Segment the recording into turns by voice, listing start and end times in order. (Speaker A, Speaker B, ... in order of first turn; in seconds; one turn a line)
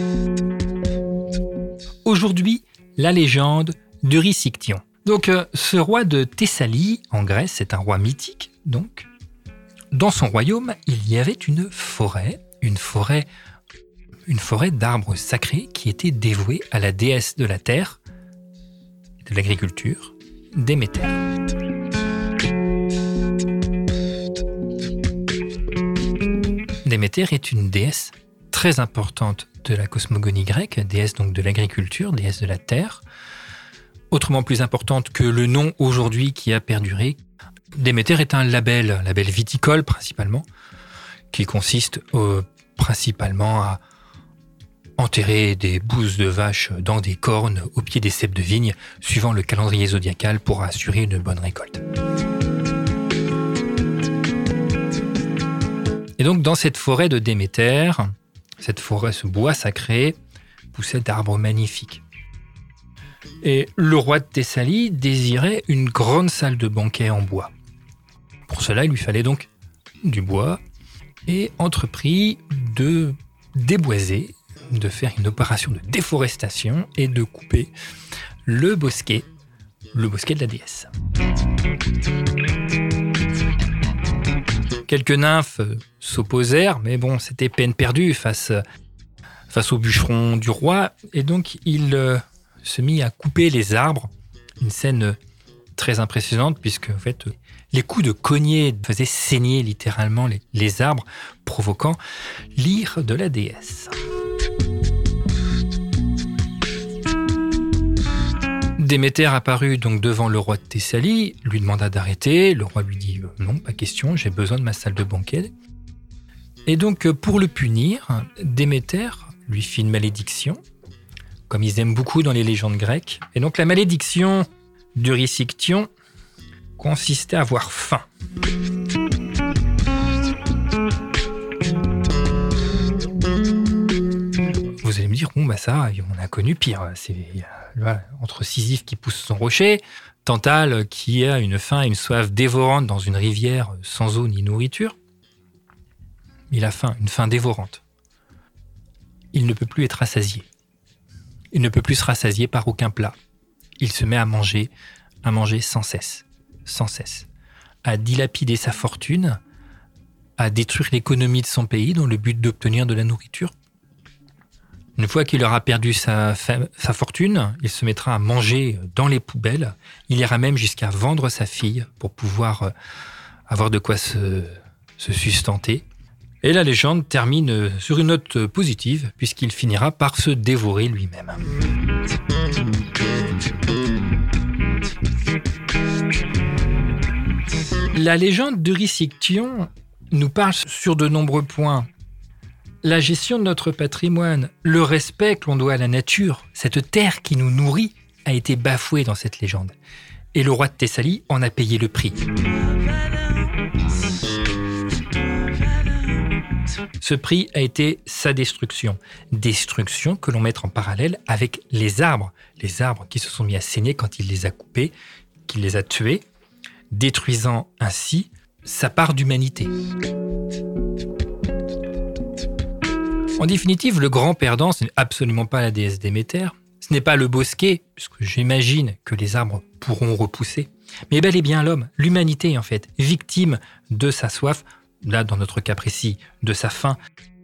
Speaker A: 2.0-9.1
Speaker A: 9.9-13.3
Speaker A: 14.3-18.0
Speaker A: 19.2-21.2
Speaker A: 26.8-33.0
Speaker A: 34.1-37.2
Speaker A: 37.7-40.5
Speaker A: 41.3-43.8
Speaker A: 45.0-51.8
Speaker A: 56.2-60.2
Speaker A: 60.7-62.0
Speaker A: 63.4-67.5
Speaker A: 68.5-69.5
Speaker A: 70.0-70.6
Speaker A: 71.3-77.7
Speaker A: 78.4-79.3
Speaker A: 79.9-80.9
Speaker A: 84.9-88.6
Speaker A: 89.5-95.2
Speaker A: 95.8-102.0
Speaker A: 102.5-104.0
Speaker A: 108.8-115.5
Speaker A: 116.7-120.6
Speaker A: 121.5-125.9
Speaker A: 126.8-128.0
Speaker A: 134.8-144.9
Speaker A: 146.5-147.8
Speaker A: 149.3-150.5
Speaker A: 151.5-153.1
Speaker A: 153.8-154.7
Speaker A: 155.2-157.3
Speaker A: 157.8-159.4
Speaker A: 160.4-163.5
Speaker A: 165.0-172.7
Speaker A: 173.5-175.8
Speaker A: 176.4-181.4
Speaker A: 187.9-191.9
Speaker A: 192.8-199.7
Speaker A: 200.3-202.3
Speaker A: 207.0-214.9
Speaker A: 215.5-216.2
Speaker A: 216.9-219.7
Speaker A: 223.4-237.0